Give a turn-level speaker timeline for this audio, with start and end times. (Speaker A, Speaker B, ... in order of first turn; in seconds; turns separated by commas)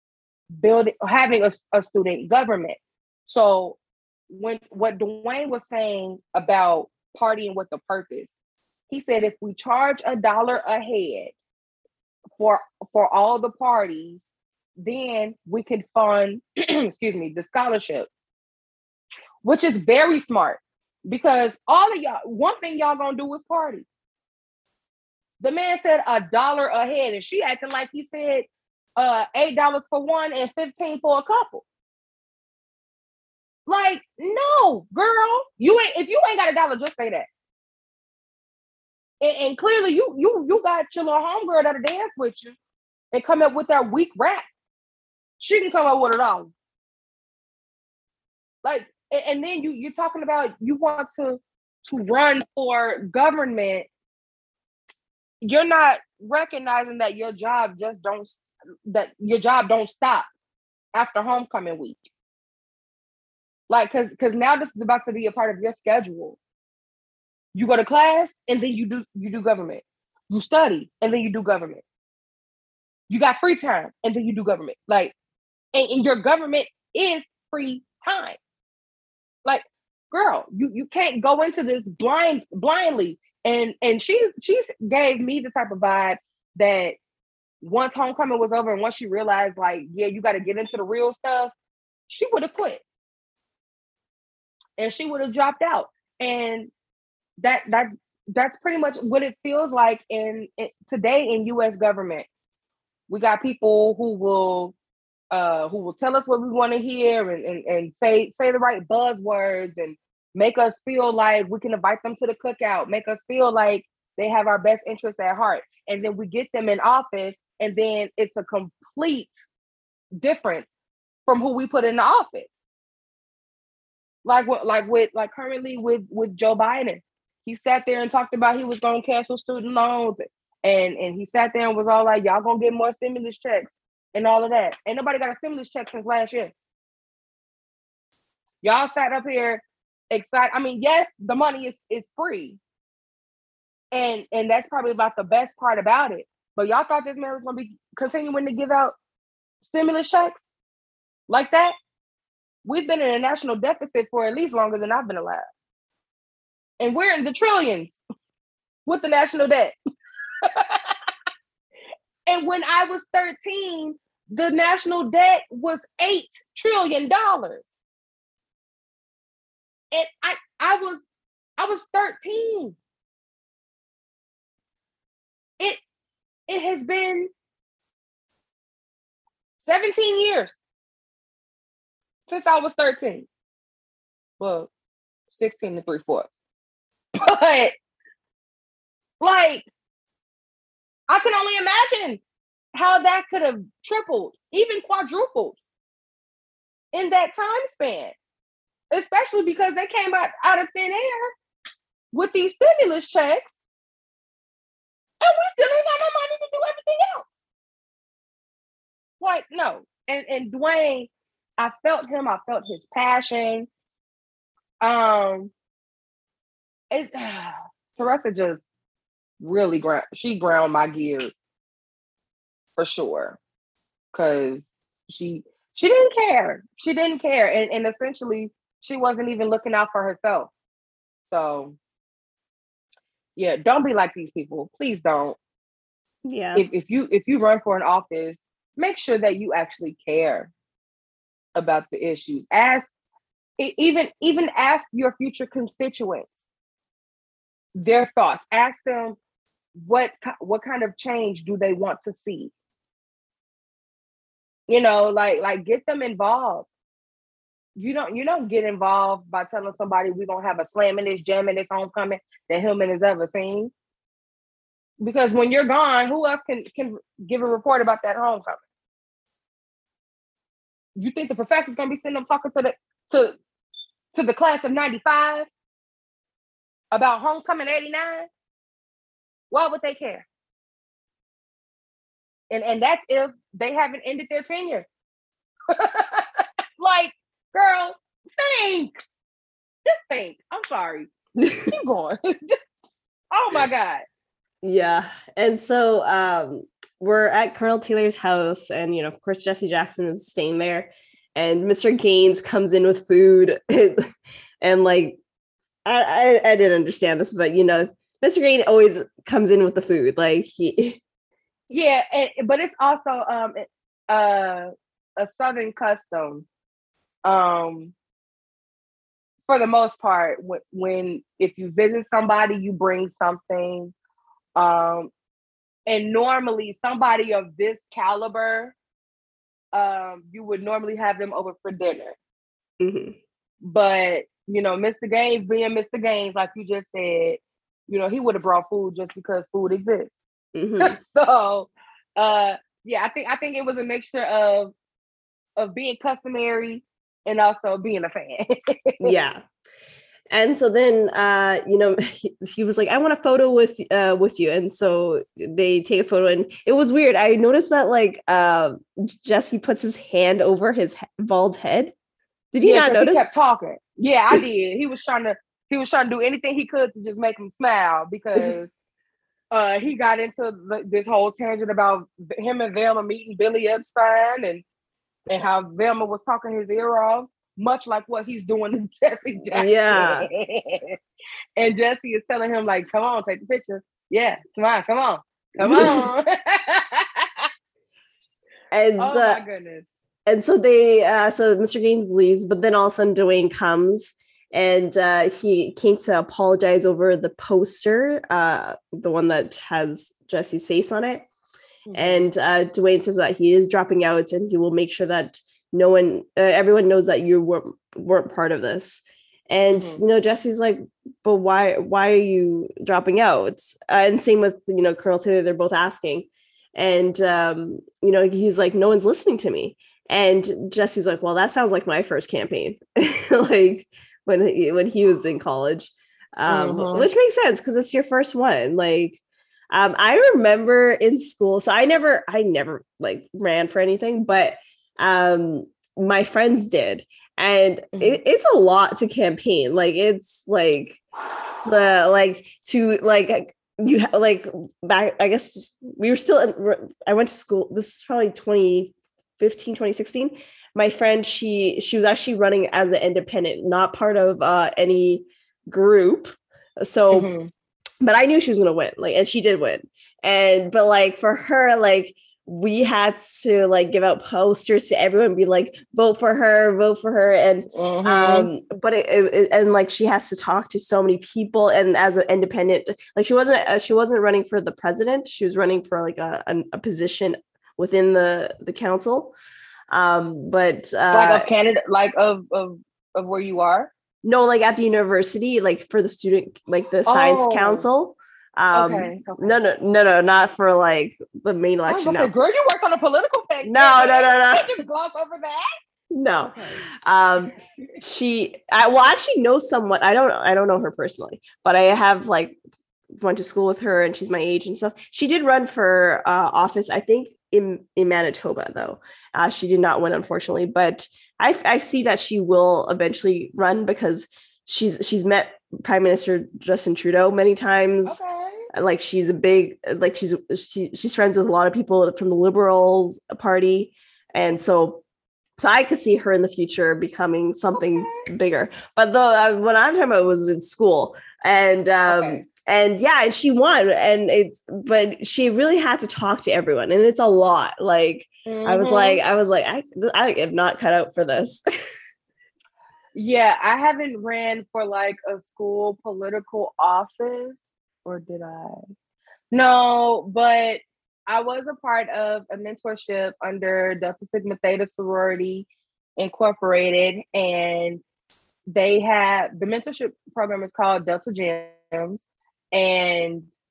Speaker A: 0.6-3.8, Speaker A: 4.3-8.3, Speaker A: 8.9-11.3, Speaker A: 12.4-14.2, Speaker A: 14.8-18.1, Speaker A: 19.4-23.9, Speaker A: 25.4-31.6, Speaker A: 33.7-37.3, Speaker A: 39.2-42.5, Speaker A: 43.1-44.4, Speaker A: 45.4-46.5, Speaker A: 48.6-53.9, Speaker A: 55.4-60.3, Speaker A: 60.9-62.0, Speaker A: 63.7-66.4, Speaker A: 67.5-71.8, Speaker A: 73.1-75.1, Speaker A: 75.7-78.4, Speaker A: 79.4-87.0, Speaker A: 87.6-91.5, Speaker A: 92.1-92.8, Speaker A: 94.8-96.7, Speaker A: 97.4-102.3, Speaker A: 103.1-104.7, Speaker A: 105.3-119.4, Speaker A: 120.2-120.7, Speaker A: 121.3-122.5, Speaker A: 124.2-136.5, Speaker A: 138.6-142.6, Speaker A: 143.9-148.9, Speaker A: 149.6-150.4, Speaker A: 151.3-151.7, Speaker A: 152.6-155.4, Speaker A: 156.8-158.0, Speaker A: 158.8-159.7, Speaker A: 160.4-160.9, Speaker A: 162.3-167.7, Speaker A: 169.9-171.0, Speaker A: 171.6-172.8, Speaker A: 176.5-177.3, Speaker A: 179.6-180.6, Speaker A: 182.3-183.3, Speaker A: 184.4-184.7, Speaker A: 185.3-186.3, Speaker A: 187.2-187.7, Speaker A: 189.2-189.7, Speaker A: 191.1-192.2, Speaker A: 192.7-195.6, Speaker A: 196.9-198.1, Speaker A: 198.9-201.3, Speaker A: 202.1-203.5, Speaker A: 205.2-207.2, Speaker A: 209.2-213.7, Speaker A: 214.8-215.5, Speaker A: 216.9-218.6, Speaker A: 219.4-221.3, Speaker A: 222.8-223.4, Speaker A: 224.1-230.5, Speaker A: 231.3-231.8, Speaker A: 233.4-235.4, Speaker B: 236.2-236.6, Speaker A: 236.5-240.5, Speaker A: 241.6-242.9, Speaker A: 243.6-246.3, Speaker A: 247.8-249.2, Speaker A: 249.8-252.5, Speaker A: 254.7-256.7, Speaker A: 257.8-263.7, Speaker A: 265.0-268.6, Speaker A: 271.0-273.3, Speaker A: 274.1-275.4, Speaker A: 276.9-278.3, Speaker A: 279.5-280.2, Speaker A: 282.5-284.9, Speaker A: 285.7-289.0, Speaker A: 289.9-291.1, Speaker B: 291.4-291.7, Speaker A: 291.7-292.6, Speaker A: 293.3-294.0, Speaker B: 294.6-304.0, Speaker B: 304.6-305.2, Speaker B: 305.8-311.0, Speaker A: 311.7-316.4, Speaker A: 317.2-317.9, Speaker A: 319.5-323.9, Speaker A: 324.6-325.1, Speaker A: 325.9-328.7, Speaker A: 329.7-332.2, Speaker B: 332.8-333.1, Speaker A: 333.6-340.1, Speaker B: 340.5-340.9, Speaker A: 340.8-344.7, Speaker A: 345.6-349.0, Speaker B: 349.0-349.4, Speaker B: 350.3-361.9, Speaker B: 362.5-363.3, Speaker A: 362.6-368.7, Speaker A: 369.5-374.6, Speaker A: 375.3-380.9, Speaker B: 379.5-380.3, Speaker A: 381.6-387.5, Speaker B: 385.6-386.1, Speaker B: 388.7-389.4, Speaker A: 389.0-389.9, Speaker B: 390.2-401.2, Speaker A: 401.9-402.3, Speaker B: 401.9-429.2, Speaker A: 409.7-410.0, Speaker A: 426.4-427.1, Speaker B: 429.7-441.0, Speaker A: 437.9-438.2, Speaker B: 441.6-457.3, Speaker A: 457.1-457.5, Speaker B: 458.0-479.3, Speaker A: 467.7-468.5, Speaker B: 479.9-481.5, Speaker A: 481.1-483.9, Speaker B: 484.2-492.3, Speaker A: 487.1-487.9, Speaker A: 488.7-489.6, Speaker A: 491.9-495.6, Speaker B: 493.6-494.7, Speaker B: 496.1-502.6, Speaker A: 496.6-496.8, Speaker B: 503.2-518.2, Speaker A: 518.0-518.6, Speaker B: 518.7-525.0, Speaker B: 525.6-541.6, Speaker A: 527.9-528.2, Speaker A: 532.1-532.4, Speaker A: 538.5-539.2, Speaker A: 543.1-548.8, Speaker A: 549.5-555.7, Speaker A: 556.2-558.0, Speaker A: 558.7-562.2, Speaker A: 562.7-563.5